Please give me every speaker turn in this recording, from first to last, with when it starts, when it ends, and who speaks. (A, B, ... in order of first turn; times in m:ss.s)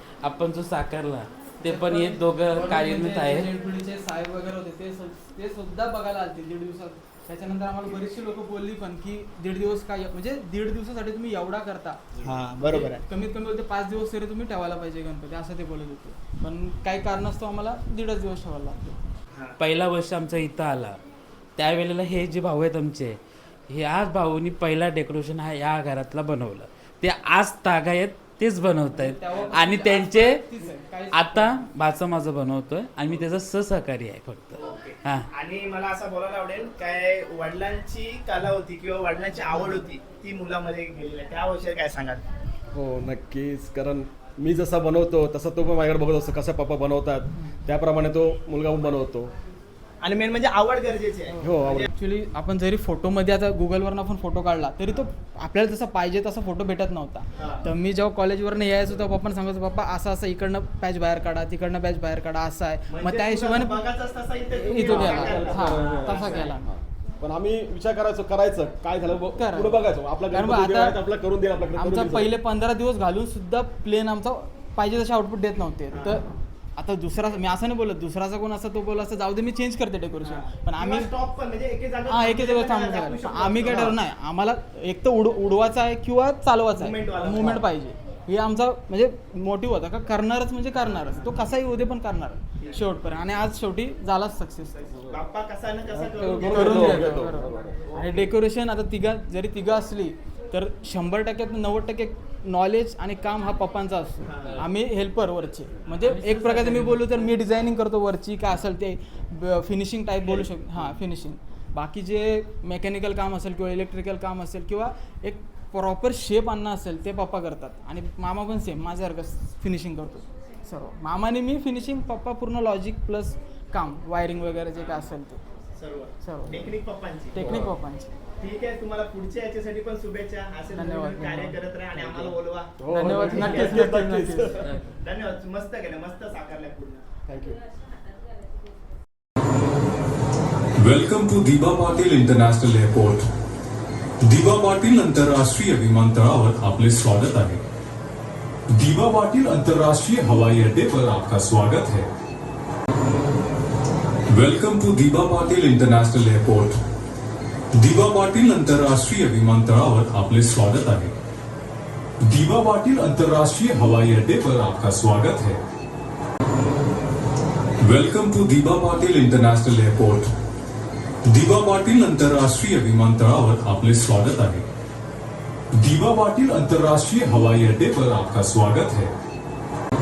0:00.2-0:03.5 A
0:01.6-0:12.0 B
0:12.2-0:13.0 C
0:12.6-0:19.0 B
0:19.6-0:21.0 A
0:21.6-0:23.2 A
0:23.7-0:30.4 A
0:28.9-0:31.6 B
0:31.1-0:35.3 A
0:34.6-0:42.2 C
0:42.7-0:49.3 D
0:50.0-0:51.9 C
0:51.3-1:03.8 B
0:51.4-0:51.9 D
0:57.4-0:57.6 C
1:02.9-1:06.4 C
1:04.5-1:12.4 D
1:04.7-1:06.7 B
1:09.3-1:11.0 B
1:11.8-1:16.2 B
1:15.9-1:16.2 C
1:16.8-1:21.1 B
1:20.2-1:24.0 C
1:22.1-1:34.8 B
1:26.7-1:27.6 C
1:30.9-1:31.5 C
1:32.6-1:32.9 C
1:34.8-1:37.2 C
1:35.9-1:38.2 D
1:36.5-2:05.4 B
1:44.2-1:44.6 C
1:46.0-1:47.2 A
1:50.4-1:50.9 D
2:04.7-2:05.1 C
2:05.8-2:07.4 C
2:06.2-2:06.7 B
2:07.3-2:08.1 B
2:07.4-2:07.7 D
2:08.4-2:12.7 C
2:10.7-2:11.6 B
2:12.0-2:14.7 D
2:12.9-2:14.5 B
2:13.3-2:13.7 C
2:14.6-2:14.9 A
2:14.8-2:17.0 C
2:17.3-2:17.6 D
2:20.8-2:23.2 E
2:24.2-2:27.6 E
2:28.7-2:32.1 E
2:34.3-2:36.8 E
2:37.7-2:41.1 E
2:42.2-2:45.6 E
2:47.8-2:50.3 E
2:51.2-2:54.6 E
2:55.8-2:59.1 E